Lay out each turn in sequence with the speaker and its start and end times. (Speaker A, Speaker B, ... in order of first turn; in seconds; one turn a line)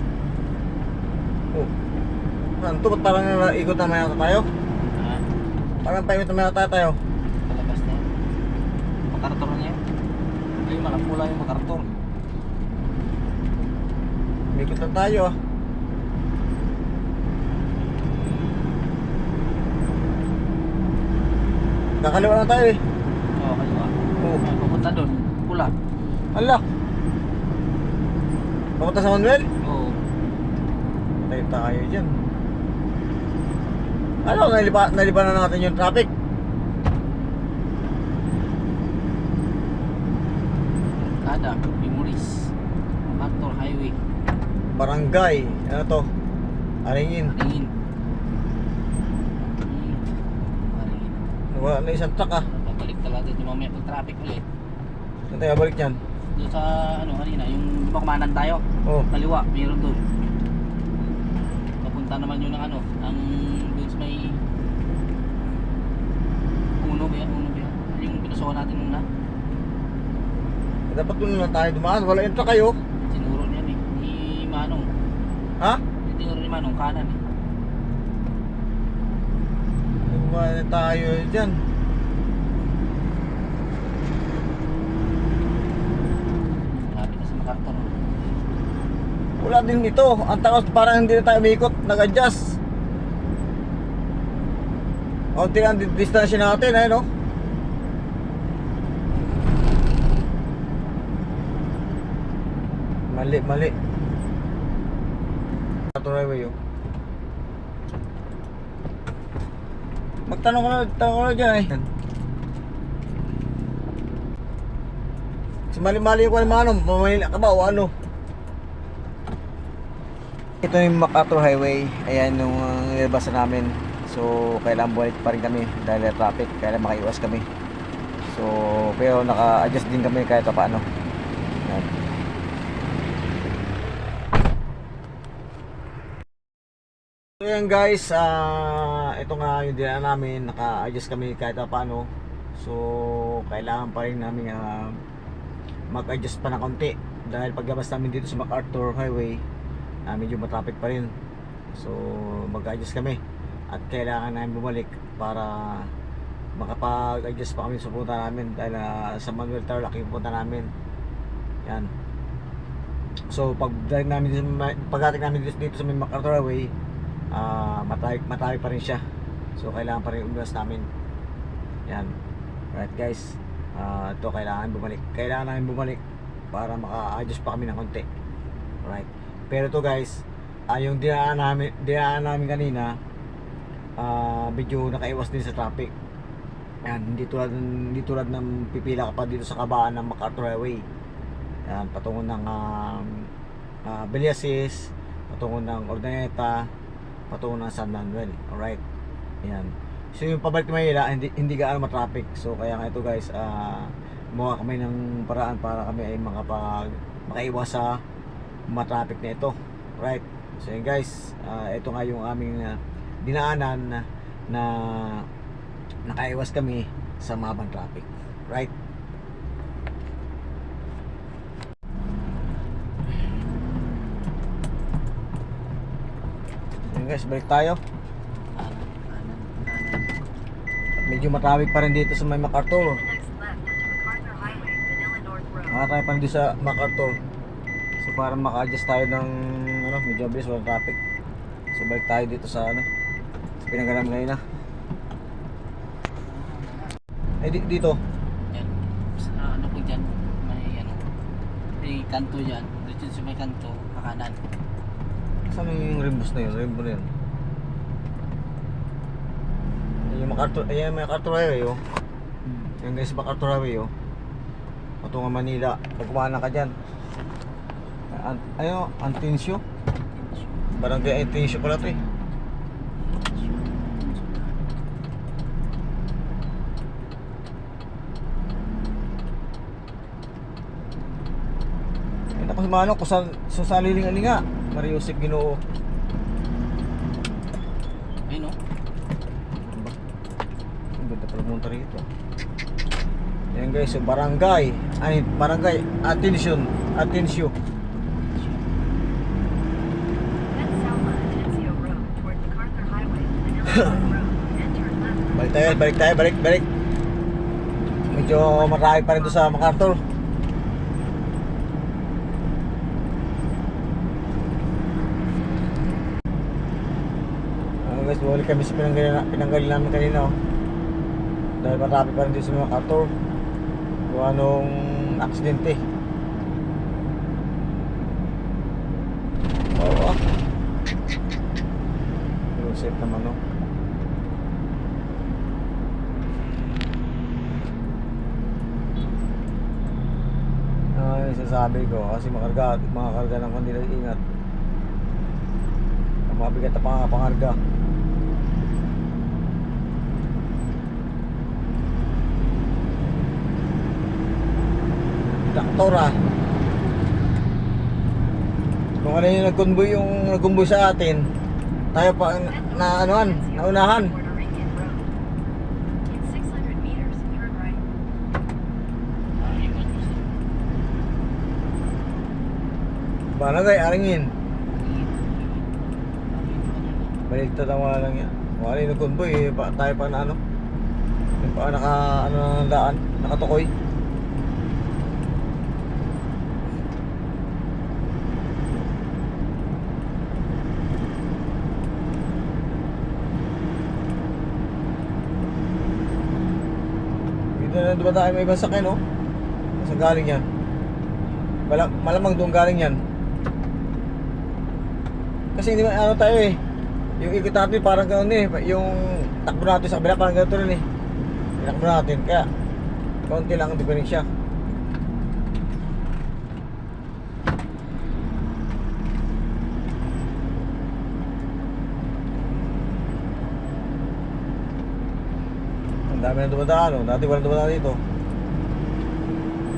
Speaker A: 2.6-4.5
Speaker B: 4.9-5.2
Speaker A: 5.8-7.0
Speaker B: 7.5-8.1
Speaker B: 9.1-9.8
Speaker B: 10.6-11.9
Speaker A: 14.5-15.3
Speaker A: 22.0-22.8
Speaker B: 23.3-25.7
Speaker A: 26.3-26.6
Speaker A: 28.8-29.5
Speaker B: 29.6-30.0
Speaker A: 31.2-32.1
Speaker A: 34.2-36.1
Speaker B: 41.0-42.5
Speaker B: 43.0-44.0
Speaker A: 44.7-46.1
Speaker A: 46.8-47.3
Speaker B: 47.2-47.7
Speaker B: 49.4-50.1
Speaker B: 50.7-51.3
Speaker A: 51.5-52.5
Speaker B: 52.4-54.4
Speaker A: 55.3-56.0
Speaker B: 56.3-60.0
Speaker B: 61.8-64.4
Speaker B: 66.8-69.0
Speaker A: 70.9-72.8
Speaker B: 73.0-74.9
Speaker B: 76.0-77.2
Speaker A: 80.1-81.6
Speaker B: 86.7-88.3
Speaker A: 89.4-92.6
Speaker A: 95.3-97.0
Speaker A: 103.1-103.7
Speaker A: 105.9-106.5
Speaker A: 110.3-111.8
Speaker A: 115.7-117.9
Speaker A: 120.6-127.4
Speaker A: 128.3-130.8
Speaker A: 137.4-142.1
Speaker A: 142.6-144.9
Speaker A: 145.9-149.4
Speaker A: 150.1-151.1
Speaker A: 151.7-153.2
Speaker A: 153.7-155.9
Speaker A: 156.6-160.7
Speaker A: 163.3-166.7
Speaker A: 167.3-169.0
Speaker A: 169.6-170.8
Speaker A: 172.7-176.0
Speaker A: 176.5-178.0
Speaker A: 178.8-180.2
Speaker A: 180.7-182.9
Speaker A: 184.0-185.9
Speaker A: 186.8-190.8
Speaker A: 191.7-193.1
Speaker A: 193.8-194.8
Speaker A: 195.3-196.6
Speaker A: 197.3-198.8
Speaker A: 199.4-207.9
Speaker A: 208.7-215.2
Speaker A: 216.1-218.7
Speaker A: 226.9-227.8
Speaker B: 228.5-230.1
Speaker A: 231.0-233.0
Speaker C: 232.8-235.7
Speaker A: 235.7-237.1
Speaker A: 238.0-241.0
Speaker A: 241.7-242.8
Speaker A: 243.6-244.4
Speaker B: 246.2-246.9
Speaker A: 247.4-248.0
Speaker B: 248.5-251.0
Speaker B: 251.8-254.4
Speaker A: 255.5-257.1
Speaker A: 260.1-261.8
Speaker B: 262.4-262.7
Speaker A: 262.8-263.9
Speaker A: 265.0-266.7
Speaker A: 268.1-269.6
Speaker A: 270.8-272.0
Speaker B: 273.1-274.5
Speaker A: 282.4-285.6
Speaker B: 288.3-288.6
Speaker A: 289.6-289.9
Speaker A: 291.0-292.1
Speaker A: 293.5-297.5
Speaker B: 298.2-298.6
Speaker C: 300.5-305.3
Speaker A: 303.7-304.0
Speaker A: 305.3-306.6
Speaker C: 307.8-309.6
Speaker A: 308.1-310.0
Speaker A: 317.9-320.3
Speaker A: 321.6-323.1
Speaker A: 324.1-325.8
Speaker A: 329.7-330.2
Speaker A: 332.6-333.4
Speaker A: 340.9-344.2
Speaker A: 346.3-347.6
Speaker A: 355.5-356.1
Speaker A: 359.0-361.2
Speaker A: 361.9-364.1
Speaker C: 362.5-365.1
Speaker C: 366.1-367.8
Speaker B: 369.4-370.2
Speaker A: 373.4-374.3
Speaker B: 374.7-375.7
Speaker B: 376.3-377.2
Speaker A: 377.3-380.4
Speaker A: 381.4-383.7
Speaker A: 397.6-399.0
Speaker A: 399.8-400.4
Speaker B: 401.2-402.9
Speaker A: 401.6-403.0
Speaker A: 405.5-406.6
Speaker A: 407.2-410.8
Speaker A: 411.6-412.5
Speaker A: 413.3-414.3
Speaker A: 426.1-428.0